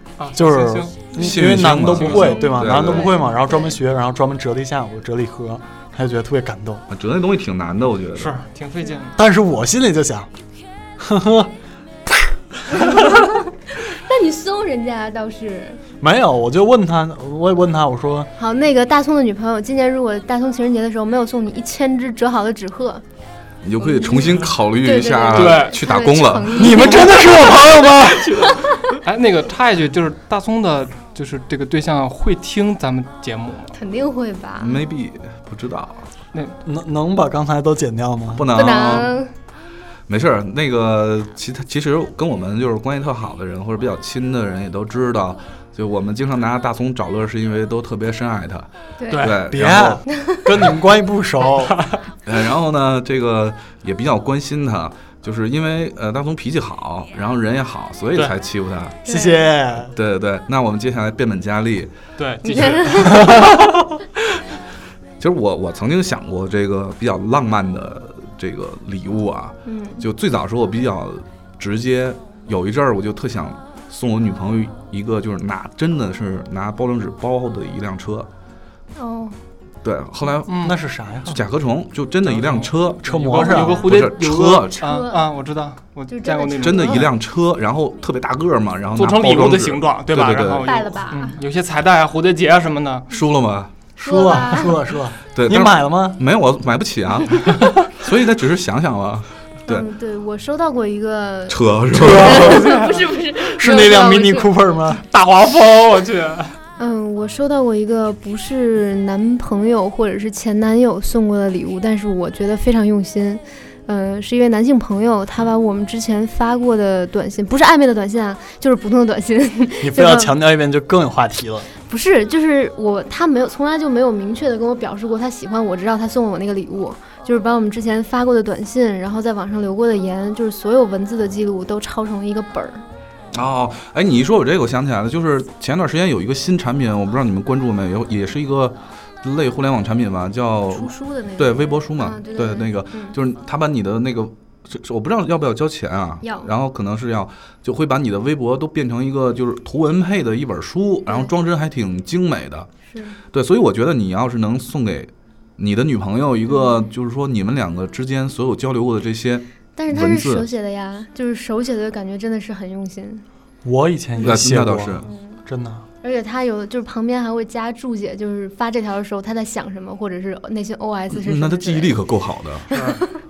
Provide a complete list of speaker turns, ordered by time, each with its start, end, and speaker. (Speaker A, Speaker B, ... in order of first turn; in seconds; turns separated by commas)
Speaker A: 0.2-2.4, Speaker B: 0.3-6.8, Speaker C: 1.2-3.1, Speaker D: 2.1-3.8, Speaker C: 6.9-8.4, Speaker A: 8.2-9.2, Speaker B: 9.2-10.3, Speaker B: 11.0-11.5, Speaker D: 12.7-15.8, Speaker B: 16.0-18.3, Speaker D: 18.4-23.0, Speaker C: 23.6-26.8, Speaker D: 23.8-27.3, Speaker A: 25.3-25.8, Speaker B: 26.5-28.5, Speaker A: 28.2-33.8, Speaker D: 28.4-28.7, Speaker D: 33.7-34.8, Speaker C: 34.6-36.1, Speaker B: 36.6-38.5, Speaker C: 38.3-39.2, Speaker D: 38.5-39.3, Speaker C: 40.1-50.0, Speaker D: 49.0-49.4, Speaker A: 49.1-49.4, Speaker B: 49.5-51.9, Speaker D: 50.1-50.4, Speaker A: 51.7-52.0, Speaker C: 52.2-59.0, Speaker D: 59.0-59.5, Speaker B: 59.1-59.9, Speaker C: 59.8-61.9, Speaker A: 62.2-63.5, Speaker D: 62.5-63.4, Speaker C: 65.2-78.3, Speaker D: 69.7-70.0, Speaker D: 79.0-79.4, Speaker C: 79.8-80.7, Speaker A: 80.5-81.4, Speaker B: 80.6-81.4, Speaker C: 81.3-84.8, Speaker A: 82.2-87.1, Speaker B: 83.0-83.9, Speaker D: 84.8-85.3, Speaker D: 86.1-87.1, Speaker C: 86.6-90.7, Speaker A: 89.0-93.1, Speaker D: 90.6-91.4, Speaker C: 93.1-93.7, Speaker B: 94.0-96.2, Speaker D: 94.0-94.8, Speaker C: 95.3-99.9, Speaker D: 99.7-104.5, Speaker C: 101.5-102.6, Speaker B: 101.9-102.6, Speaker A: 102.3-103.1, Speaker B: 103.4-105.0, Speaker A: 105.1-106.6, Speaker D: 106.8-120.3, Speaker B: 119.8-121.7, Speaker D: 121.9-132.8, Speaker C: 133.3-152.7, Speaker D: 140.7-143.2, Speaker D: 146.2-146.5, Speaker D: 152.9-153.2, Speaker C: 153.3-160.5, Speaker D: 156.5-156.9, Speaker D: 159.8-163.2, Speaker B: 163.6-165.9, Speaker C: 164.2-165.1, Speaker D: 165.0-165.4, Speaker D: 166.0-171.9, Speaker C: 171.1-172.7, Speaker A: 172.7-173.0, Speaker D: 172.7-173.0